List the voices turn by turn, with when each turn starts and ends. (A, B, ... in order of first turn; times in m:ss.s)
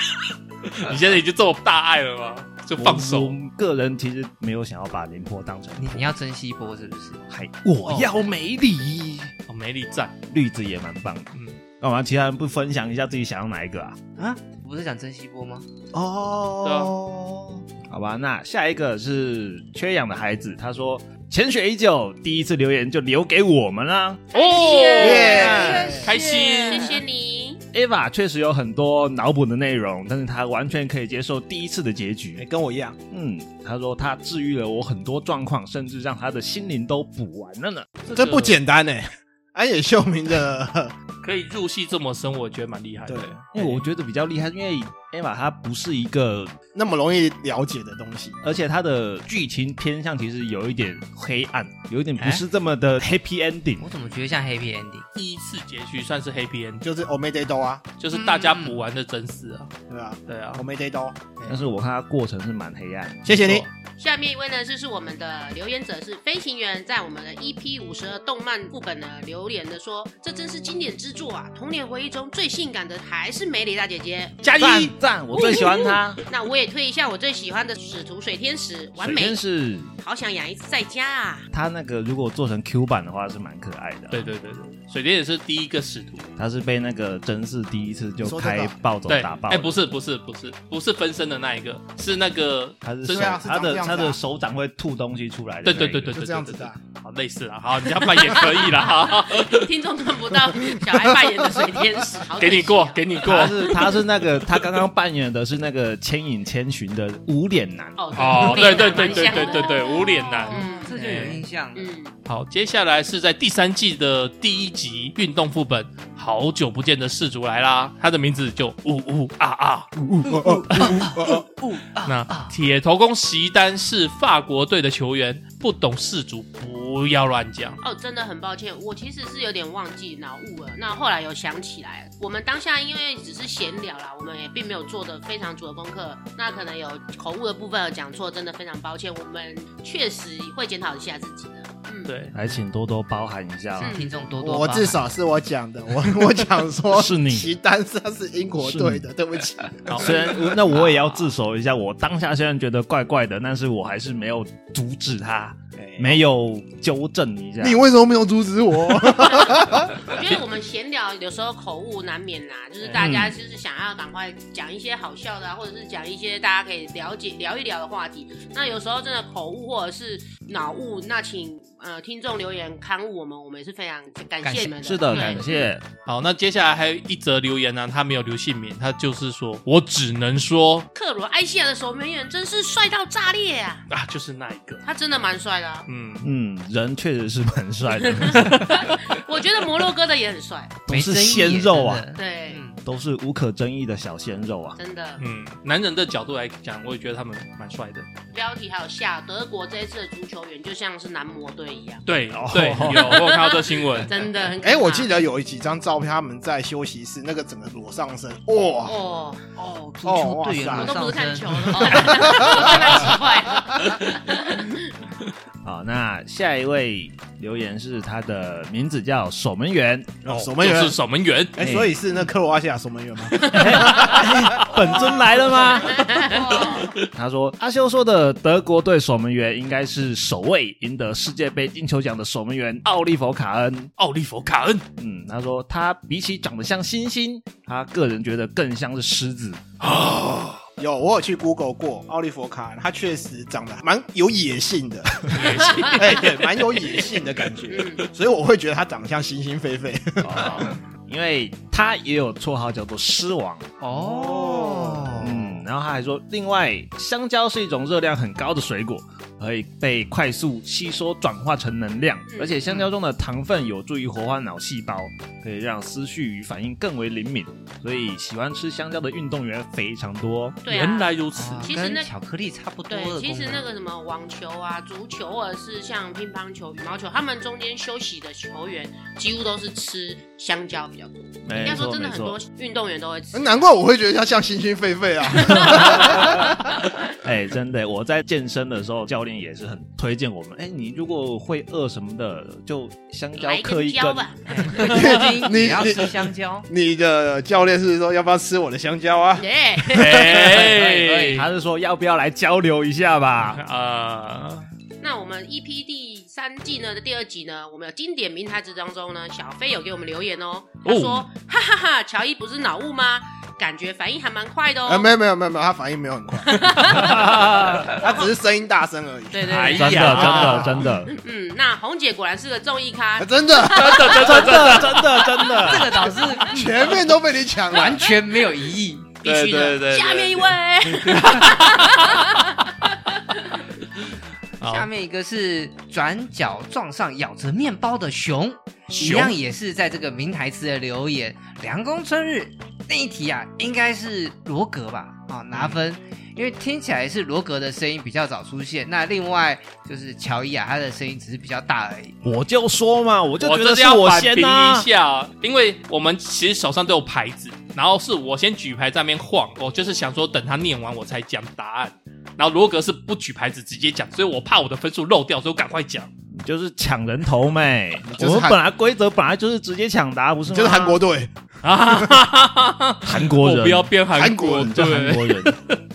0:00.7-0:03.4 A
0:02.8-0:06.1 B
0:05.8-0:07.3 C
0:07.3-0:09.3 B
0:09.5-0:10.2 A
0:10.3-0:14.0 B
0:14.2-0:15.6 C
0:15.9-0:24.3 B
0:16.6-0:16.9 A
0:24.3-0:25.5 D
0:24.3-0:25.4 A
0:24.4-0:27.0 C
0:25.0-0:26.1 E
0:25.1-0:26.0 B
0:26.0-0:26.9 A
0:26.6-0:27.6 D
0:27.7-0:32.4 B
0:32.4-0:33.0 E
0:33.1-0:38.1 B
0:38.1-0:38.6 A
0:38.1-0:40.9 E
0:41.2-0:43.8 A
0:43.1-0:43.4 E
0:43.5-0:46.5 B
0:46.7-0:48.4 E
0:48.4-0:53.8 B
0:52.2-0:52.4 C
0:53.8-0:55.1 C
0:55.2-0:56.8 A
0:56.8-0:57.9 E
0:58.0-0:59.7 A
0:58.2-0:58.6 C
0:59.9-1:01.2 E
1:00.3-1:00.6 A
1:01.4-1:03.4 B
1:03.2-1:03.7 E
1:03.4-1:03.7 A
1:03.8-1:14.4 D
1:14.4-1:15.6 A
1:14.5-1:16.2 B
1:15.3-1:19.4 D
1:19.0-1:19.9 B
1:20.0-1:21.5 D
1:21.5-1:24.3 B
1:24.1-1:26.3 A
1:26.4-1:29.7 B
1:28.2-1:28.7 E
1:29.1-1:33.4 A
1:32.8-1:36.2 B
1:33.1-1:34.2 E
1:35.6-1:39.7 A
1:36.1-1:36.8 E
1:39.0-1:43.2 D
1:42.4-1:43.9 A
1:43.2-1:48.6 B
1:48.0-1:51.0 D
1:48.2-1:51.4 A
1:48.6-1:51.9 C
1:51.7-1:52.1 D
1:52.2-1:59.9 A
2:00.0-2:01.4 E
2:00.2-2:02.5 C
2:02.0-2:07.8 A
2:07.8-2:22.1 D
2:22.1-2:22.3 A
2:22.3-2:24.0 B
2:23.8-2:24.2 D
2:23.9-2:25.0 C
2:24.4-2:30.6 E
2:26.9-2:27.5 B
2:28.6-2:29.0 B
2:29.9-2:30.2 A
2:30.0-2:37.8 B
2:30.7-2:31.1 C
2:35.8-2:36.2 E
2:37.6-2:40.1 E
2:39.4-2:55.5 D
2:43.0-2:43.4 B
2:54.4-2:55.6 C
2:54.8-2:55.8 B
2:56.0-3:00.9 A
3:00.9-3:03.8 D
3:03.9-3:04.8 A
3:04.8-3:05.8 D
3:05.9-3:06.3 A
3:06.2-3:08.9 B
3:08.0-3:10.8 D
3:08.3-3:08.9 A
3:10.9-3:12.1 B
3:10.9-3:12.8 C
3:12.2-3:12.6 D
3:12.8-3:14.8 B
3:14.8-3:15.2 D
3:15.2-3:18.1 A
3:18.3-3:22.0 D
3:22.1-3:24.2 A
3:22.3-3:23.2 B
3:23.1-3:25.1 D
3:24.6-3:29.0 E
3:28.8-3:29.4 D
3:29.6-3:32.6 C
3:30.0-3:31.0 E
3:30.7-3:34.9 D
3:32.0-3:33.0 E
3:35.6-3:40.5 B
3:40.2-3:41.0 E
3:40.3-3:41.6 A
3:41.5-3:44.9 E
3:41.6-3:42.0 B
3:43.4-3:53.9 B
3:45.7-3:46.9 D
3:46.6-3:46.9 A
3:54.0-3:54.8 A
3:55.0-3:59.7 B
3:59.9-4:00.5 A
4:00.8-4:10.7 E
4:05.3-4:06.6 A
4:05.7-4:06.0 D
4:07.7-4:08.1 D
4:10.2-4:13.8 B
4:13.8-4:15.6 C
4:14.0-4:15.1 E
4:15.1-4:30.6 B
4:22.3-4:22.6 D
4:30.6-4:32.1 D
4:30.7-4:31.7 A
4:31.3-4:33.6 C
4:32.9-4:43.5 D
4:41.4-4:42.4 B
4:43.3-4:46.8 E
4:45.5-4:46.3 D
4:45.6-4:46.5 B
4:47.2-4:54.3 B
4:53.4-4:55.0 D
4:54.5-4:56.7 C
4:54.8-5:00.6 E
4:59.4-5:00.3 D
4:59.9-5:01.5 A
5:00.5-5:01.4 C
5:01.2-5:03.6 B
5:03.4-5:04.7 A
5:05.0-5:15.1 D
5:10.8-5:11.3 A
5:14.8-5:20.9 E
5:16.5-5:17.4 D
5:16.6-5:18.0 A
5:17.3-5:17.7 B
5:19.3-5:24.2 D
5:19.5-5:20.8 A
5:19.5-5:21.1 B
5:23.2-5:25.0 E
5:23.7-5:25.2 A
5:24.1-5:26.0 B
5:25.2-5:25.6 D
5:25.5-5:27.1 C
5:26.3-5:28.1 E
5:27.7-5:29.1 C
5:29.2-5:33.2 D
5:29.2-5:32.4 A
5:34.6-5:34.9 A
5:34.6-5:52.2 C
5:38.9-5:39.4 A
5:52.2-5:54.9 B
5:53.4-6:06.1 A
6:06.3-6:11.0 B
6:08.1-6:08.6 E
6:10.5-6:11.3 E
6:11.6-6:15.8 A
6:11.9-6:12.1 E
6:13.0-6:15.6 B
6:14.1-6:14.8 E